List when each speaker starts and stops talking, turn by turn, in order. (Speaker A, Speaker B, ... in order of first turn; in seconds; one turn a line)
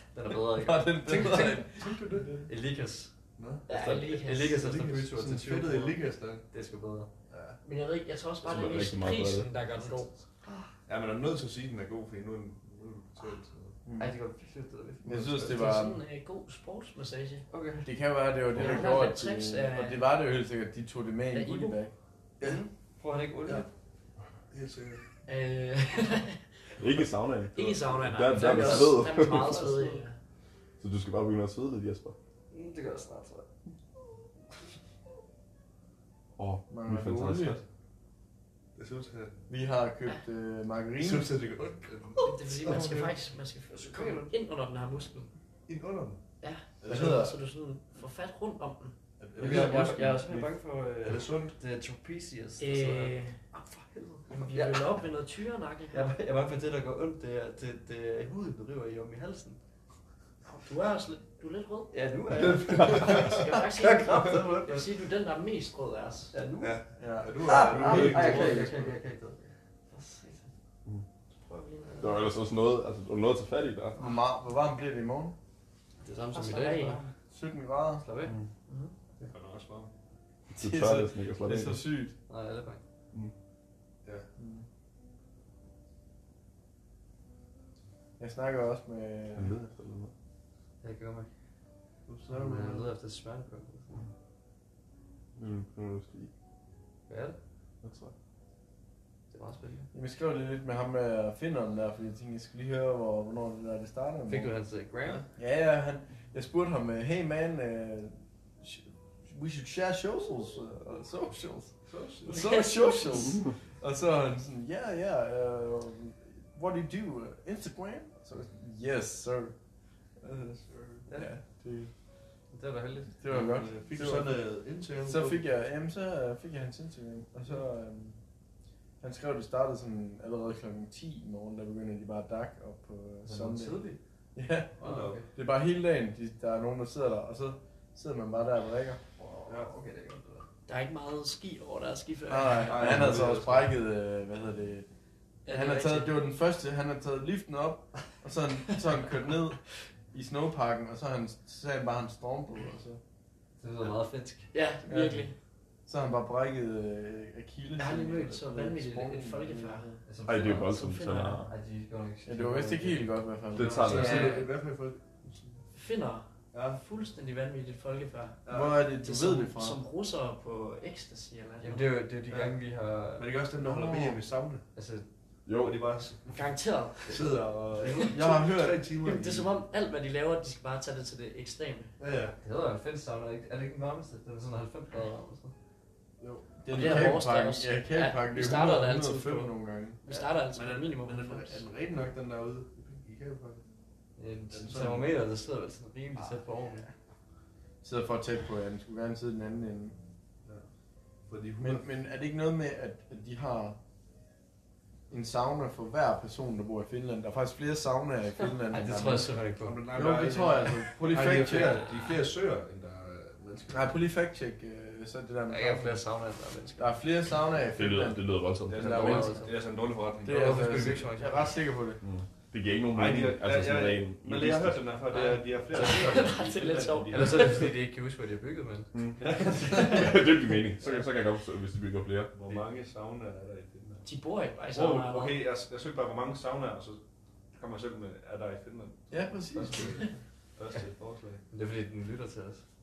Speaker A: 0.1-1.6
Speaker B: 0.5-2.5
Speaker C: 1.3-2.3
Speaker A: 2.5-3.1
Speaker C: 3.4-3.6
Speaker D: 3.7-4.6
Speaker A: 3.7-7.1
Speaker C: 4.5-6.4
Speaker C: 7.3-7.6
Speaker D: 7.6-10.2
Speaker E: 8.4-9.5
Speaker A: 10.4-10.7
Speaker C: 10.9-13.7
Speaker B: 13.8-14.1
Speaker A: 14.0-15.3
Speaker B: 15.0-16.0
Speaker C: 15.1-15.6
Speaker D: 15.4-17.4
Speaker A: 17.5-17.9
Speaker B: 17.8-21.9
Speaker D: 18.6-20.0
Speaker D: 21.3-21.8
Speaker C: 22.4-22.6
Speaker A: 22.4-23.7
Speaker C: 24.5-25.0
Speaker D: 25.2-26.4
Speaker E: 26.7-29.6
Speaker D: 27.5-30.1
Speaker A: 28.3-30.0
Speaker E: 30.8-32.1
Speaker A: 32.5-33.5
Speaker E: 36.4-37.6
Speaker B: 36.7-37.6
Speaker C: 38.8-39.3
Speaker B: 39.5-41.3
Speaker C: 41.0-43.2
Speaker D: 42.2-45.3
Speaker A: 43.7-44.3
Speaker C: 45.7-46.2
Speaker D: 46.4-48.9
Speaker C: 46.8-47.2
Speaker B: 46.8-47.4
Speaker C: 49.2-50.2
Speaker A: 49.4-55.0
Speaker C: 51.0-51.5
Speaker D: 52.6-53.5
Speaker D: 54.3-56.1
Speaker A: 55.9-59.6
Speaker D: 60.5-61.9
Speaker A: 61.9-63.4
Speaker C: 62.3-64.7
Speaker D: 62.8-66.5
Speaker A: 64.2-64.9
Speaker A: 66.3-66.7
Speaker C: 66.6-68.6
Speaker B: 67.0-68.9
Speaker A: 67.4-70.5
Speaker D: 67.8-68.9
Speaker A: 71.5-72.2
Speaker D: 71.8-72.2
Speaker E: 72.0-74.0
Speaker B: 73.9-75.3
Speaker A: 76.0-77.1
Speaker D: 76.3-77.0
Speaker B: 77.3-78.0
Speaker A: 78.0-78.3
Speaker E: 78.2-78.5
Speaker D: 78.7-78.9
Speaker C: 79.2-79.9
Speaker E: 80.5-81.8
Speaker B: 80.5-82.1
Speaker A: 82.3-82.8
Speaker B: 84.4-84.7
Speaker B: 88.2-89.5
Speaker E: 89.3-90.1
Speaker A: 90.8-91.3
Speaker C: 92.1-92.9
Speaker A: 92.3-94.0
Speaker E: 95.3-96.3
Speaker A: 97.1-97.4
Speaker E: 97.8-98.1
Speaker A: 99.3-99.9
Speaker B: 99.9-104.5
Speaker A: 104.3-105.2
Speaker B: 105.3-119.5
Speaker C: 111.9-112.4
Speaker D: 112.2-113.3
Speaker C: 120.2-121.1
Speaker A: 121.1-121.3
Speaker B: 121.1-121.9
Speaker A: 122.5-123.2
Speaker B: 123.2-124.4
Speaker C: 123.3-125.4
Speaker B: 125.0-128.2
Speaker B: 129.0-133.8
Speaker A: 133.2-134.0
Speaker B: 134.3-139.0
Speaker C: 134.8-135.2
Speaker A: 134.8-135.3
Speaker A: 139.2-140.4
Speaker D: 140.7-142.9
Speaker B: 142.3-144.8
Speaker C: 142.6-143.7
Speaker D: 145.4-146.2
Speaker B: 145.5-153.0
Speaker A: 153.6-154.5
Speaker D: 154.5-155.3
Speaker B: 154.9-155.2
Speaker B: 155.9-160.0
Speaker D: 157.8-161.4
Speaker A: 160.1-160.7
Speaker E: 160.2-161.5
Speaker A: 161.4-164.4
Speaker B: 162.2-164.0
Speaker E: 163.5-164.3
Speaker C: 163.8-165.6
Speaker D: 163.9-164.5
Speaker D: 165.7-168.4
Speaker C: 166.5-166.8
Speaker C: 168.4-168.8
Speaker B: 168.5-169.8
Speaker D: 169.0-171.9
Speaker A: 171.6-173.3
Speaker C: 172.3-172.6
Speaker C: 173.2-174.6
Speaker B: 173.6-174.2
Speaker A: 174.7-175.1
Speaker E: 175.4-175.8
Speaker C: 175.6-176.3
Speaker D: 176.3-178.2
Speaker C: 177.0-179.5
Speaker B: 178.1-178.8
Speaker D: 179.0-181.9
Speaker C: 182.0-182.4
Speaker A: 182.4-185.5
Speaker C: 186.2-187.0
Speaker B: 186.6-190.0
Speaker D: 186.7-189.5
Speaker D: 190.0-191.7
Speaker C: 190.1-193.6
Speaker A: 194.2-196.9
Speaker C: 194.5-195.1
Speaker B: 197.8-200.0
Speaker C: 201.3-201.8
Speaker B: 201.6-203.8
Speaker B: 205.1-209.3
Speaker A: 208.7-209.8
Speaker C: 209.6-213.9
Speaker B: 209.9-211.8
Speaker A: 211.5-212.1
Speaker B: 213.7-216.0
Speaker A: 215.5-217.0
Speaker B: 216.8-219.4
Speaker E: 217.7-219.4
Speaker C: 218.7-221.0
Speaker A: 218.8-219.6
Speaker B: 220.2-222.0
Speaker A: 220.2-221.6
Speaker E: 222.0-225.0
Speaker C: 222.9-227.7
Speaker A: 225.1-226.4
Speaker D: 225.7-227.7
Speaker A: 227.1-228.9
Speaker E: 228.9-232.6
Speaker C: 229.2-230.1
Speaker A: 230.8-231.1
Speaker C: 232.3-234.1
Speaker D: 234.0-235.4
Speaker C: 234.7-237.0
Speaker C: 237.5-241.4
Speaker B: 239.1-240.0
Speaker A: 241.5-242.6